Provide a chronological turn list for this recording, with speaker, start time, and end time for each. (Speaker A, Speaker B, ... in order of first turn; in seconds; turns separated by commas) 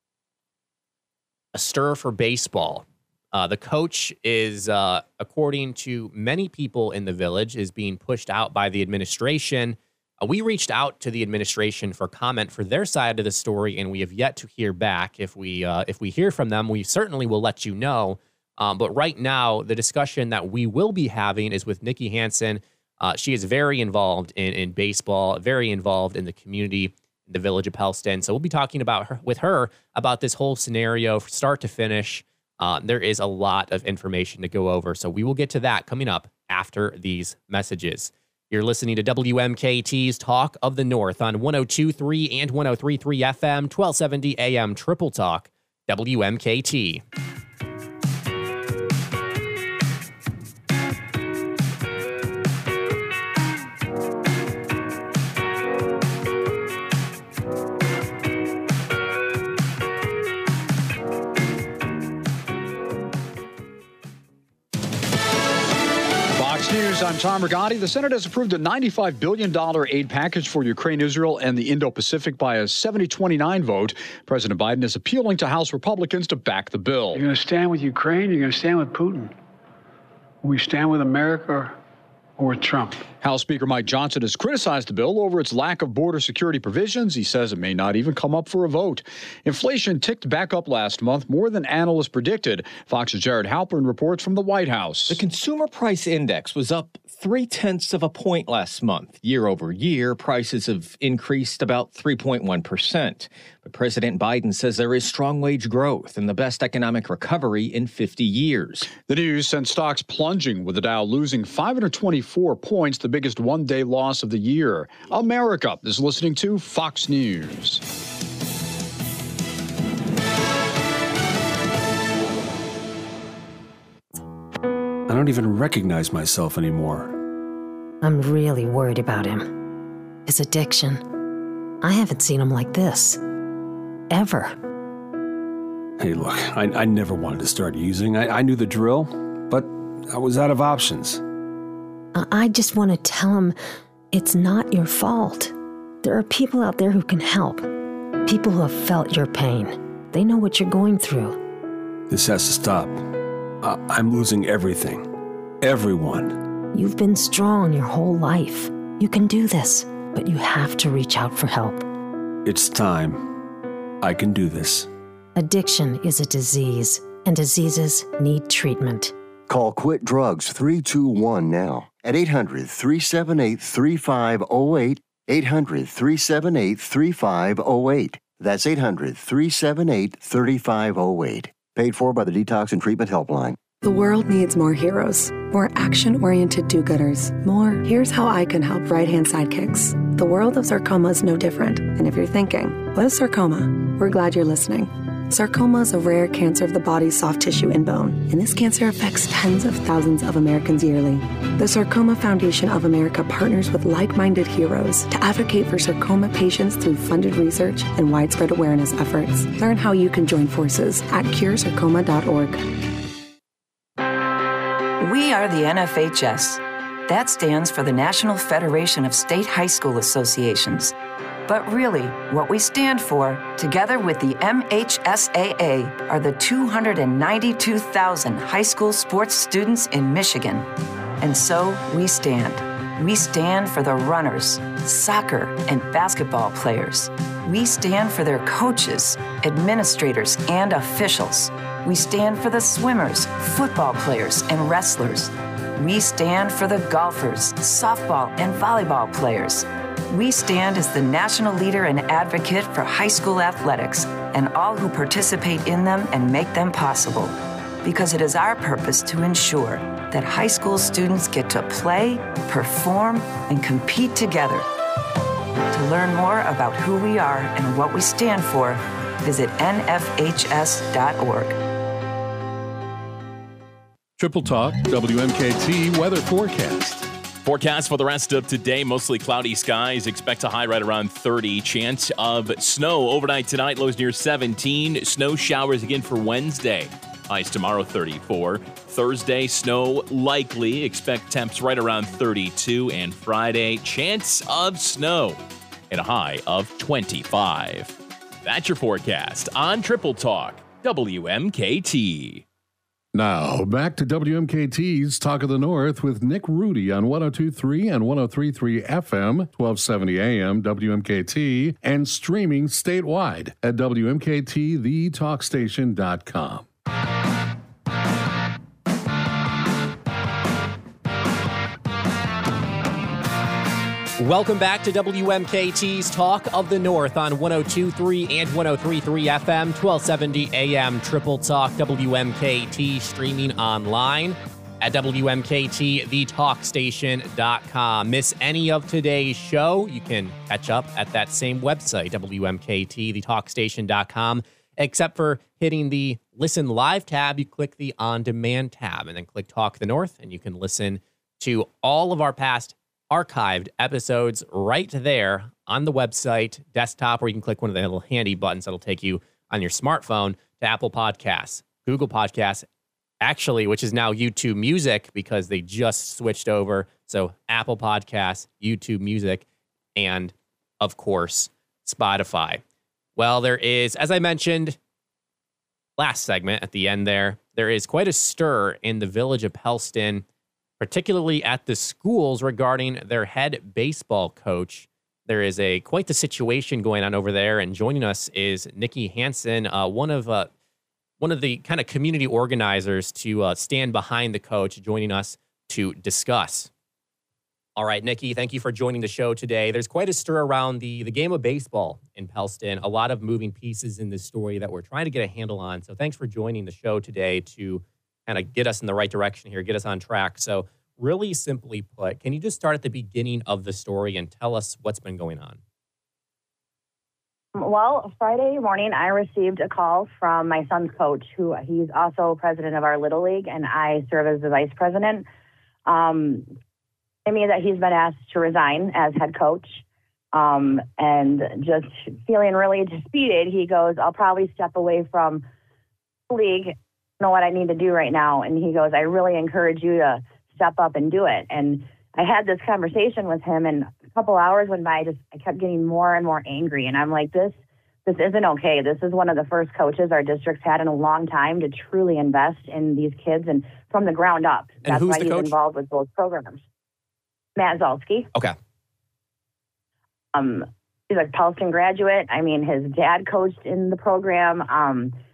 Speaker A: 1.5-47.0, Speaker B: 66.3-77.3, Speaker C: 77.2-79.3, Speaker C: 80.4-81.7, Speaker C: 82.4-82.9, Speaker B: 83.1-95.2, Speaker D: 95.1-108.9, Speaker B: 108.9-117.8, Speaker E: 125.1-126.9, Speaker F: 128.0-129.6, Speaker F: 130.3-131.0, Speaker F: 131.8-133.2, Speaker F: 134.1-134.6, Speaker E: 136.2-139.0, Speaker E: 140.2-141.2, Speaker F: 142.2-143.6, Speaker F: 144.1-147.7, Speaker F: 148.3-151.4, Speaker E: 152.1-152.9, Speaker E: 154.1-154.9, Speaker E: 155.7-156.2, Speaker F: 156.7-161.8, Speaker E: 162.5-163.1, Speaker E: 164.1-164.8, Speaker F: 165.4-169.1, Speaker G: 169.5-183.6, Speaker H: 183.8-212.6, Speaker I: 215.0-220.9, Speaker I: 221.5-230.7, Speaker I: 231.2-264.7, Speaker I: 265.7-271.6, Speaker J: 274.2-277.1, Speaker K: 277.4-302.4, Speaker J: 303.1-316.7, Speaker A: 324.2-362.7, Speaker A: 363.2-369.4, Speaker A: 370.0-372.6, Speaker A: 373.2-374.8, Speaker A: 376.0-380.2, Speaker A: 380.8-390.5, Speaker A: 391.2-396.7, Speaker A: 397.8-415.6, Speaker L: 417.6-425.2, Speaker L: 425.9-426.5, Speaker L: 427.3-435.5, Speaker L: 436.3-456.6, Speaker A: 454.9-455.5, Speaker L: 457.6-458.3, Speaker L: 460.3-465.1